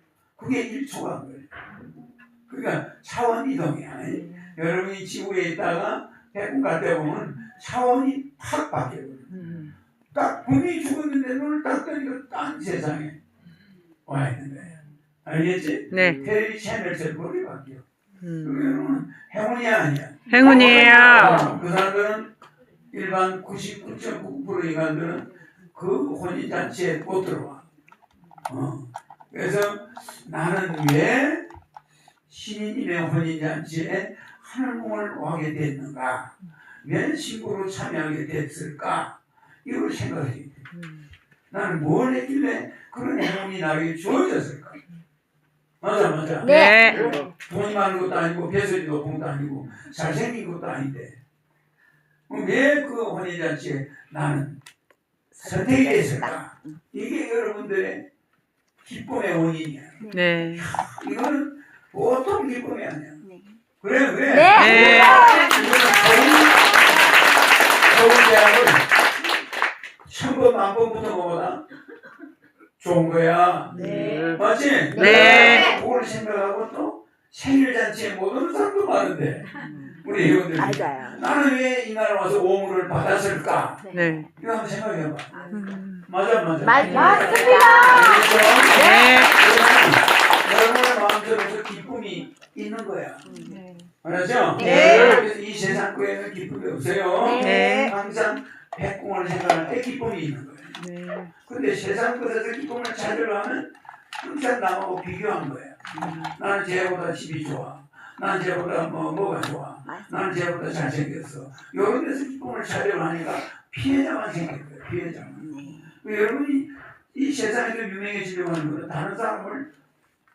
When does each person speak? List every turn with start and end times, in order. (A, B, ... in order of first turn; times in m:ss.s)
0:00.4-0:01.5 A
0:02.5-0:09.3 A
0:09.3-0:09.7 B
0:10.1-0:13.2 A
0:14.1-0:17.8 A
0:15.9-0:16.3 B
0:18.2-0:19.0 B
0:18.4-0:22.3 A
0:20.3-0:21.5 B
0:20.7-0:21.0 C
0:22.9-0:27.6 A
0:28.5-0:31.5 A
0:32.3-0:40.7 A
0:41.5-0:44.8 A
0:45.8-0:51.2 A
0:46.4-0:47.2 C
0:46.5-0:47.2 B
0:52.3-0:54.6 A
0:55.3-0:56.8 C
0:55.4-0:58.1 A
0:58.8-1:03.2 A
1:00.0-1:00.4 C
1:00.1-1:00.7 B
1:03.2-1:03.6 C
1:03.8-1:06.8 A
1:04.3-1:05.9 C
1:04.5-1:05.3 B
1:07.9-1:08.9 A
1:10.0-1:11.6 A
1:12.8-1:19.5 A
1:13.7-1:15.8 C
1:15.0-1:15.7 B
1:19.6-1:21.4 C
1:20.0-1:25.5 A
1:23.8-1:24.3 C
1:23.9-1:24.3 B
1:25.3-1:25.8 C
1:25.5-1:26.1 B
1:26.0-1:33.3 A
1:26.6-1:29.3 C
1:26.8-1:27.3 B
1:28.7-1:29.4 B
1:33.2-1:33.6 C
1:33.5-1:33.9 B
1:34.0-1:40.8 A
1:34.6-1:35.3 C
1:34.6-1:35.2 B
1:37.2-1:38.0 C
1:37.4-1:37.9 B
1:40.8-1:41.3 B
1:41.5-1:59.7 A
1:46.0-1:46.4 B
1:55.4-1:55.9 C